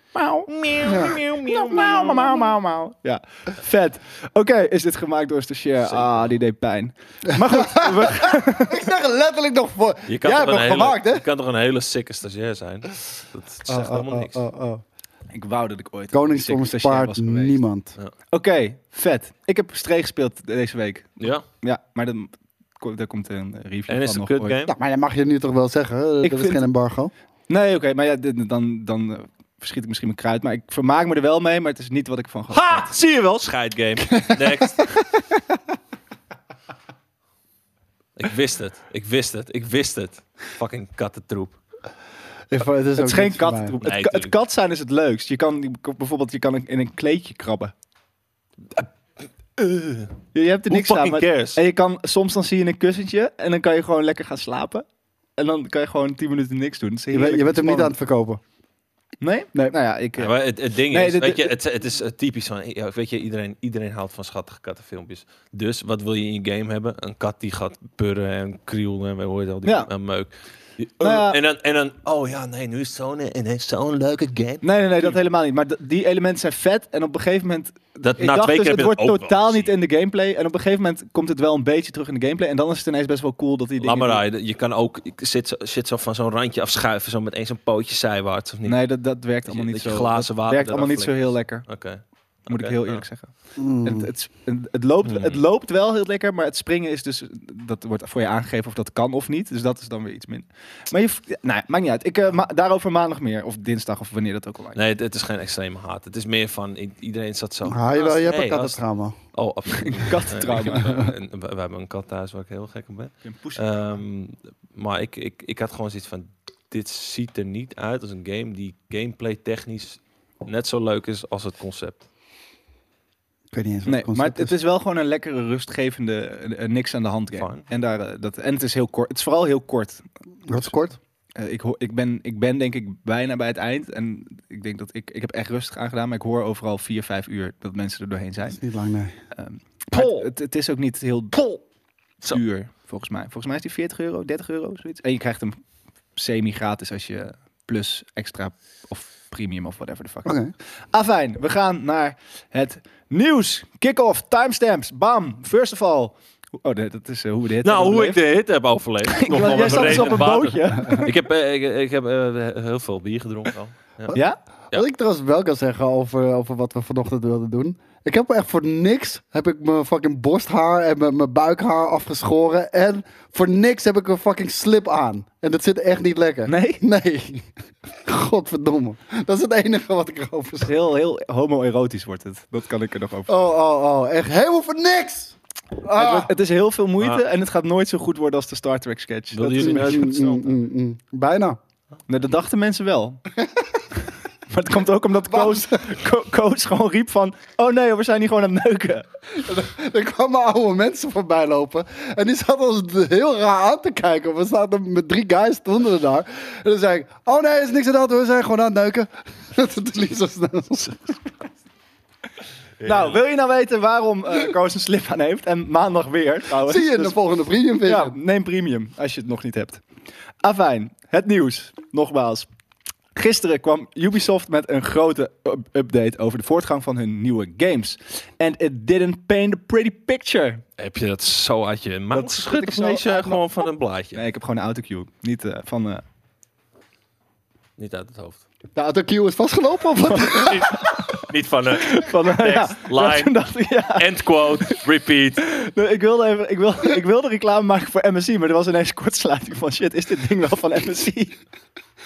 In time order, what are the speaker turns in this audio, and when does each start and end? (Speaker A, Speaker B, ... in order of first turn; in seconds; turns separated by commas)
Speaker A: 0.1-8.8, Speaker B: 0.5-2.5, Speaker C: 0.8-1.2, Speaker B: 5.9-6.3, Speaker C: 7.3-11.2, Speaker B: 10.1-14.4, Speaker C: 13.7-14.8, Speaker A: 15.3-17.6, Speaker C: 16.1-17.9, Speaker A: 18.3-24.6, Speaker B: 23.9-24.7, Speaker C: 24.7-27.1, Speaker A: 26.2-26.6, Speaker A: 27.5-32.9, Speaker B: 32.5-35.0, Speaker C: 34.2-35.0, Speaker B: 38.2-41.6, Speaker C: 42.5-43.8, Speaker A: 43.0-47.7, Speaker B: 43.8-44.3, Speaker B: 49.6-50.2, Speaker A: 50.3-54.9, Speaker B: 50.7-51.6, Speaker A: 55.4-57.9, Speaker C: 57.1-58.4, Speaker A: 59.2-60.3, Speaker B: 60.2-75.2, Speaker A: 60.9-61.5, Speaker A: 69.7-69.9, Speaker A: 71.0-71.4, Speaker A: 74.6-84.2, Speaker B: 78.0-79.7, Speaker B: 83.8-88.9, Speaker A: 88.7-91.7, Speaker B: 89.5-93.0, Speaker A: 92.5-104.8, Speaker C: 93.6-94.1, Speaker B: 95.0-95.4, Speaker B: 104.8-108.8, Speaker C: 107.7-109.2, Speaker B: 109.3-122.1, Speaker A: 109.8-111.1, Speaker A: 113.2-113.7, Speaker C: 123.5-124.5, Speaker A: 123.9-130.1, Speaker B: 127.3-127.6, Speaker C: 130.5-131.0, Speaker A: 131.4-138.6, Speaker C: 138.5-139.2, Speaker A: 139.3-141.4, Speaker B: 139.9-140.3, Speaker B: 141.3-141.6, Speaker A: 142.3-145.6, Speaker A: 146.2-150.4, Speaker C: 150.3-150.5, Speaker A: 150.9-158.2, Speaker B: 157.6-164.2, Speaker A: 159.1-161.1, Speaker C: 160.8-161.1, Speaker A: 164.1-164.4, Speaker C: 164.7-177.5, Speaker A: 176.5-176.8, Speaker C: 178.0-180.7, Speaker A: 180.6-183.4, Speaker C: 183.3-186.3, Speaker A: 185.9-189.9, Speaker B: 189.3-190.6, Speaker C: 189.5-191.6, Speaker A: 192.1-193.2, Speaker C: 193.4-193.8, Speaker A: 194.5-199.1, Speaker C: 195.3-196.0, Speaker C: 199.3-211.3, Speaker B: 212.8-213.2, Speaker A: 212.8-217.2, Speaker C: 216.6-218.2, Speaker A: 217.8-219.8, Speaker A: 220.4-222.5, Speaker A: 223.2-230.6, Speaker B: 230.8-234.2, Speaker A: 232.1-236.0, Speaker B: 237.8-238.4, Speaker C: 238.8-241.0, Speaker B: 240.2-245.5, Speaker A: 241.8-244.8, Speaker A: 245.4-251.4